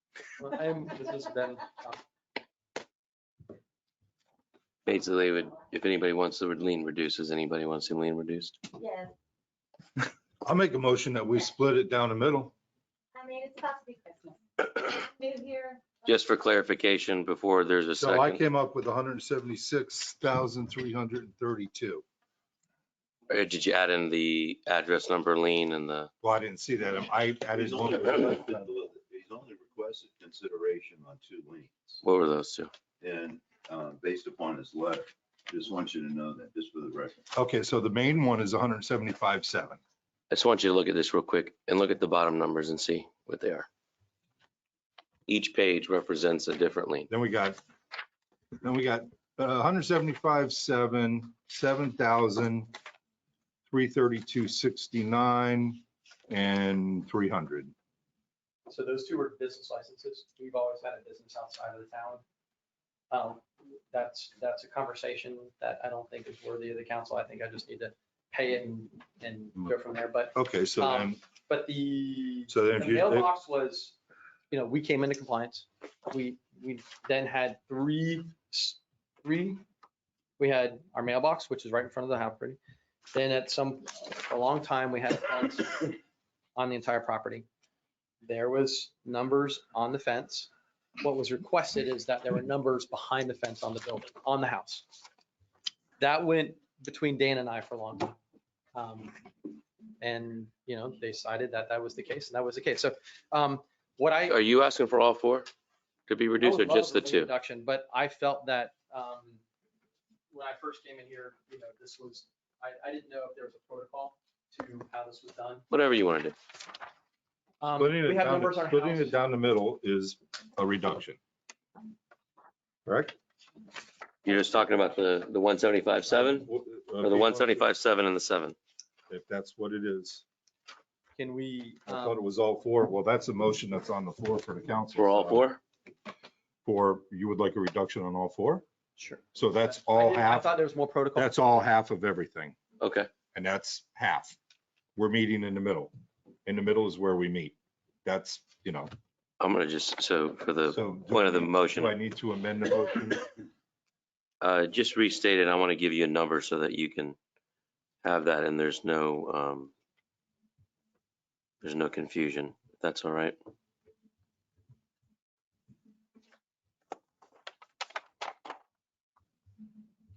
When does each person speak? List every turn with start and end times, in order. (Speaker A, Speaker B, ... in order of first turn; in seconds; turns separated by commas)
Speaker A: 0.4-2.0, Speaker B: 4.8-8.6, Speaker C: 8.7-9.1, Speaker D: 10.4-12.5, Speaker C: 13.1-16.2, Speaker B: 16.1-18.4, Speaker D: 18.0-22.0, Speaker B: 23.3-26.1, Speaker D: 26.2-28.1, Speaker E: 27.4-32.0, Speaker B: 32.0-32.7, Speaker E: 33.0-37.3, Speaker D: 37.3-39.8, Speaker B: 40.3-43.7, Speaker B: 45.3-47.1, Speaker D: 47.1-47.6, Speaker D: 48.6-52.7, Speaker D: 53.7-57.7, Speaker A: 58.7-62.2, Speaker A: 63.1-74.0, Speaker D: 70.3-71.2, Speaker D: 72.5-73.3, Speaker A: 74.5-79.6, Speaker A: 80.4-82.6, Speaker A: 83.1-86.0, Speaker A: 86.5-87.4, Speaker A: 88.2-94.9, Speaker A: 96.0-98.2, Speaker A: 98.7-99.2, Speaker A: 100.0-104.4, Speaker B: 104.3-105.5, Speaker B: 106.1-107.3, Speaker A: 106.4-109.4, Speaker A: 110.3-115.6, Speaker B: 115.7-116.3, Speaker A: 117.6-119.2, Speaker D: 117.8-121.2, Speaker D: 122.8-123.1, Speaker B: 124.2-126.5, Speaker D: 126.2-127.6, Speaker B: 127.0-128.6, Speaker D: 129.1-130.2, Speaker A: 131.2-132.2, Speaker D: 131.9-135.4, Speaker B: 134.9-135.6, Speaker D: 136.6-138.6, Speaker A: 139.0-141.4, Speaker D: 139.3-140.5, Speaker D: 141.2-142.6, Speaker B: 142.8-143.1, Speaker D: 143.3-144.4, Speaker D: 144.9-145.9, Speaker D: 146.4-148.9, Speaker B: 149.4-151.9, Speaker D: 150.7-153.3, Speaker B: 154.4-157.2, Speaker B: 158.0-159.7, Speaker B: 161.6-163.4